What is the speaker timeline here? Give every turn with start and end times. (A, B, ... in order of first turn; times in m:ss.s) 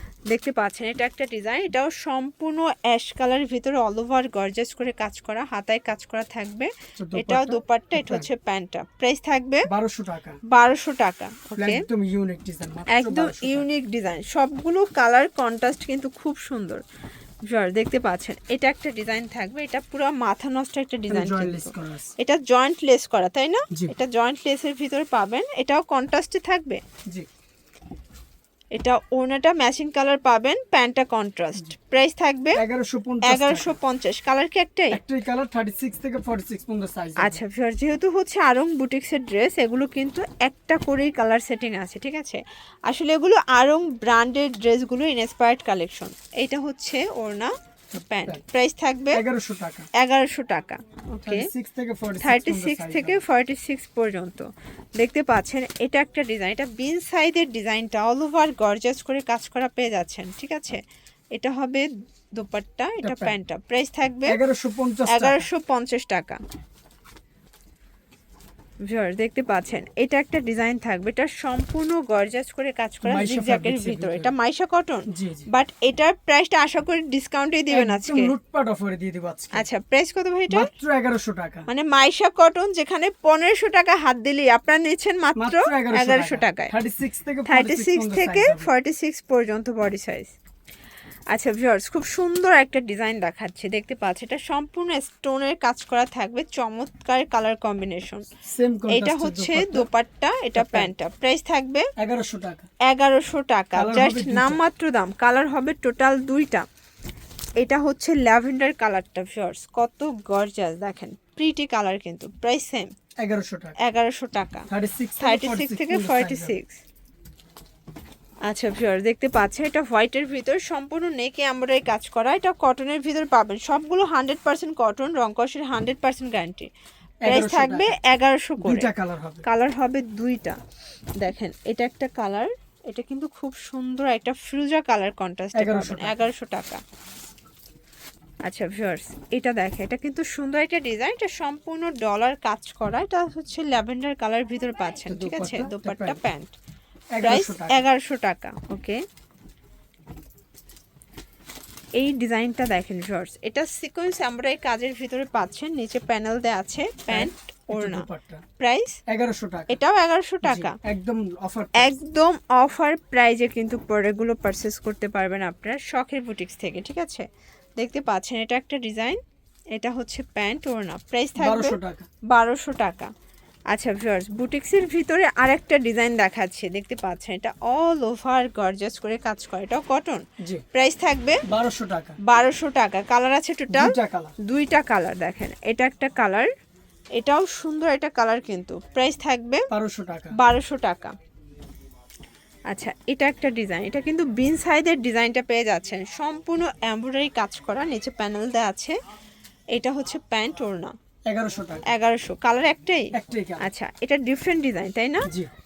0:00.3-0:09.7 A
0:07.0-0:08.3 B
0:09.7-0:10.4 B
0:10.5-0:11.8 A
0:11.6-0:13.7 B
0:12.9-0:16.8 A
0:17.5-0:26.8 A
0:21.1-0:22.1 B
0:28.7-0:32.6 A
0:32.6-0:33.8 B
0:33.2-0:35.0 A
0:34.9-0:37.4 B
0:37.2-0:47.6 A
0:47.9-0:48.4 B
0:48.1-0:49.2 A
0:49.1-0:49.9 B
0:49.9-0:51.5 A
0:51.2-0:53.2 B
0:52.2-1:00.8 A
1:01.3-1:04.4 A
1:03.0-1:03.4 B
1:04.3-1:05.5 B
1:05.1-1:06.4 A
1:08.8-1:18.3 A
1:13.0-1:14.3 B
1:15.1-1:15.5 B
1:17.7-1:19.7 B
1:19.5-1:20.7 A
1:20.5-1:21.7 B
1:21.7-1:26.7 A
1:25.4-1:28.7 B
1:27.5-1:30.3 A
1:31.3-1:38.3 A
1:38.4-1:39.9 B
1:38.9-1:41.9 A
1:40.6-1:40.9 B
1:42.0-1:42.7 B
1:42.8-1:46.7 A
1:43.8-1:44.6 B
1:47.6-1:52.9 A
1:53.2-1:53.8 B
1:53.8-1:54.7 A
1:54.7-1:56.6 B
1:55.2-1:56.8 A
1:58.5-2:06.7 A
2:07.2-2:08.0 B
2:07.3-2:08.9 A
2:08.6-2:09.5 B
2:09.4-2:10.6 A
2:11.2-2:16.8 A
2:15.5-2:16.3 B
2:18.4-2:26.5 A
2:25.1-2:26.2 B
2:27.1-2:27.8 B
2:27.2-2:29.0 A
2:32.0-2:38.1 A
2:37.1-2:38.4 B
2:38.6-2:39.0 A
2:39.1-2:39.8 B
2:39.7-2:40.8 A
2:40.4-2:42.0 B
2:41.8-2:47.3 A
2:47.8-2:49.2 A
2:49.8-2:53.1 A
2:51.4-2:52.1 B
2:53.7-3:01.4 A
3:00.4-3:00.6 B
3:01.5-3:02.2 B
3:02.2-3:06.5 A
3:03.7-3:04.3 B
3:07.2-3:09.7 A
3:09.7-3:10.4 B
3:10.3-3:11.2 A
3:12.7-3:19.0 A
3:19.7-3:20.9 A
3:21.3-3:21.9 B
3:21.9-3:25.3 A
3:23.1-3:23.7 B